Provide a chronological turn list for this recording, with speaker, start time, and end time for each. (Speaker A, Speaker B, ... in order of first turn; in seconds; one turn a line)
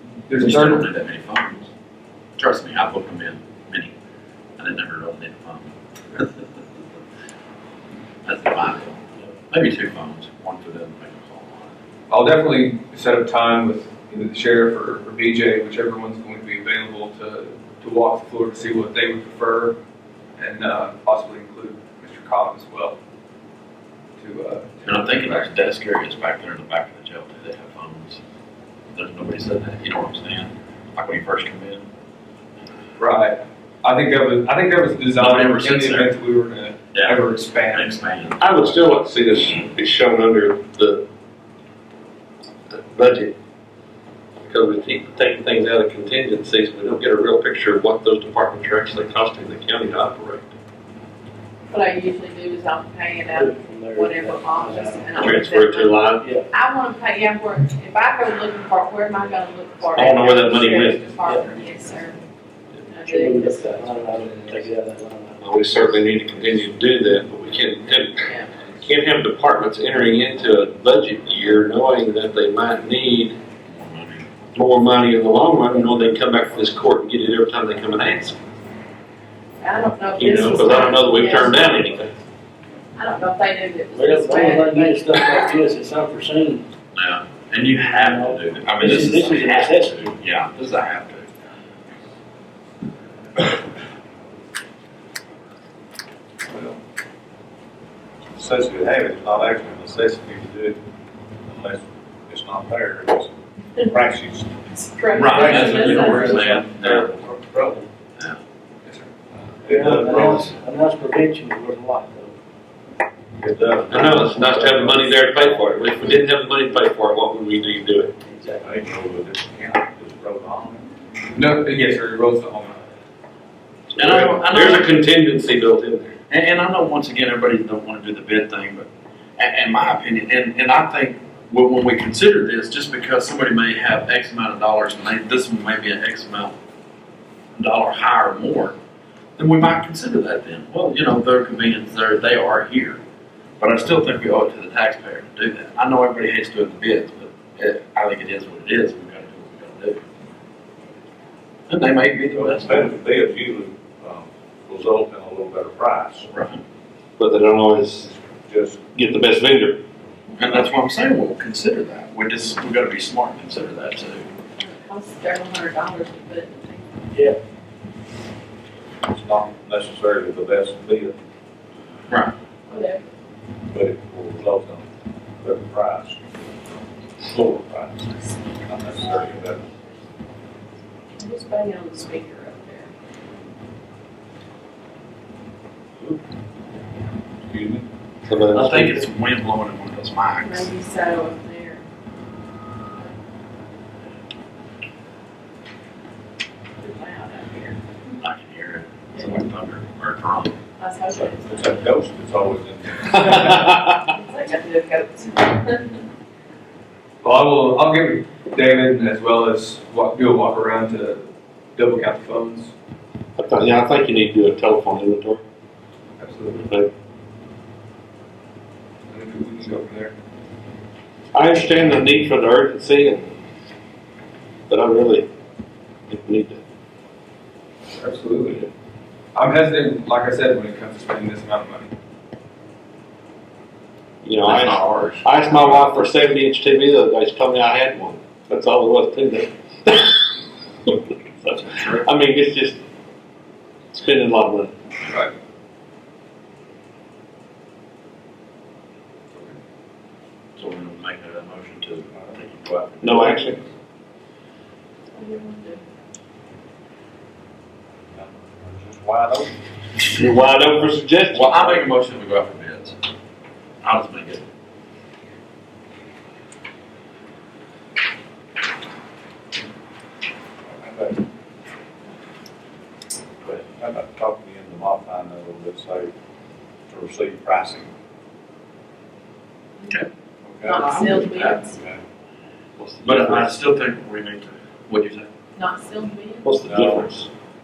Speaker A: 0.3-0.9
Speaker B: 0.4-1.7
Speaker B: 2.4-3.9
Speaker B: 4.6-6.5
Speaker B: 8.2-11.8
Speaker A: 12.1-19.8
Speaker A: 20.4-23.0
Speaker A: 24.2-25.5
Speaker B: 24.9-28.2
Speaker B: 28.9-31.9
Speaker A: 33.0-38.0
Speaker B: 35.2-36.1
Speaker B: 36.9-38.8
Speaker C: 38.4-41.0
Speaker C: 42.7-43.4
Speaker C: 44.5-50.5
Speaker D: 51.7-62.2
Speaker E: 53.3-55.4
Speaker C: 55.2-56.2
Speaker E: 56.2-56.5
Speaker C: 59.9-61.1
Speaker E: 61.2-61.6
Speaker D: 62.9-64.1
Speaker E: 63.1-65.8
Speaker C: 65.4-68.3
Speaker D: 68.2-68.5
Speaker C: 68.8-73.4
Speaker B: 73.7-74.3
Speaker C: 74.5-78.4
Speaker D: 79.6-81.9
Speaker C: 80.2-82.1
Speaker D: 83.0-85.7
Speaker E: 83.9-86.7
Speaker B: 86.9-91.3
Speaker E: 87.7-90.1
Speaker A: 96.5-96.8
Speaker F: 98.3-100.8
Speaker F: 101.5-104.7
Speaker D: 104.7-106.6
Speaker B: 105.1-107.1
Speaker F: 105.2-107.9
Speaker A: 108.8-109.1
Speaker F: 109.6-110.6
Speaker E: 109.7-112.3
Speaker F: 113.4-116.2
Speaker C: 113.9-118.1
Speaker E: 118.2-118.7
Speaker F: 118.6-120.9
Speaker A: 121.3-122.8
Speaker C: 123.9-126.2
Speaker B: 124.0-124.9
Speaker B: 126.3-136.6
Speaker B: 137.6-138.8
Speaker B: 139.4-143.0
Speaker B: 143.6-150.1
Speaker B: 151.7-152.9
Speaker F: 152.3-156.3
Speaker B: 156.3-156.6
Speaker C: 157.2-158.1
Speaker F: 158.1-158.8
Speaker C: 158.9-159.8
Speaker B: 160.4-164.3
Speaker D: 164.6-167.2
Speaker E: 167.1-167.4
Speaker F: 169.0-171.2
Speaker B: 172.1-172.3
Speaker D: 172.7-173.0
Speaker F: 173.7-174.9
Speaker F: 175.4-178.1
Speaker F: 178.6-179.7
Speaker D: 181.1-182.9
Speaker F: 187.4-187.9
Speaker C: 188.2-189.1
Speaker B: 188.5-190.7
Speaker D: 190.4-191.8
Speaker D: 196.8-197.8
Speaker B: 198.2-200.5
Speaker D: 199.1-199.4
Speaker D: 200.8-201.9
Speaker F: 201.1-203.8
Speaker C: 203.3-203.9
Speaker D: 203.4-206.0
Speaker A: 207.2-212.7
Speaker C: 213.4-215.4
Speaker A: 216.2-216.7
Speaker A: 219.1-220.1
Speaker C: 221.3-223.4
Speaker C: 224.7-225.3
Speaker C: 226.1-226.6
Speaker A: 227.9-228.7
Speaker A: 229.3-231.9
Speaker C: 234.2-242.8
Speaker B: 234.4-236.1
Speaker B: 241.5-242.1
Speaker C: 243.9-244.7
Speaker B: 250.6-253.6
Speaker C: 253.0-253.6
Speaker D: 255.1-255.8
Speaker F: 258.1-259.5
Speaker C: 260.1-261.9
Speaker B: 261.3-263.0
Speaker B: 263.8-264.4
Speaker F: 270.7-271.2
Speaker F: 273.4-276.1
Speaker F: 276.9-277.9
Speaker B: 279.8-280.1
Speaker F: 280.5-282.0
Speaker D: 280.6-281.8
Speaker B: 280.7-281.6
Speaker C: 282.8-283.6
Speaker B: 283.0-285.3
Speaker D: 285.6-286.5
Speaker C: 286.4-287.3
Speaker F: 286.6-287.1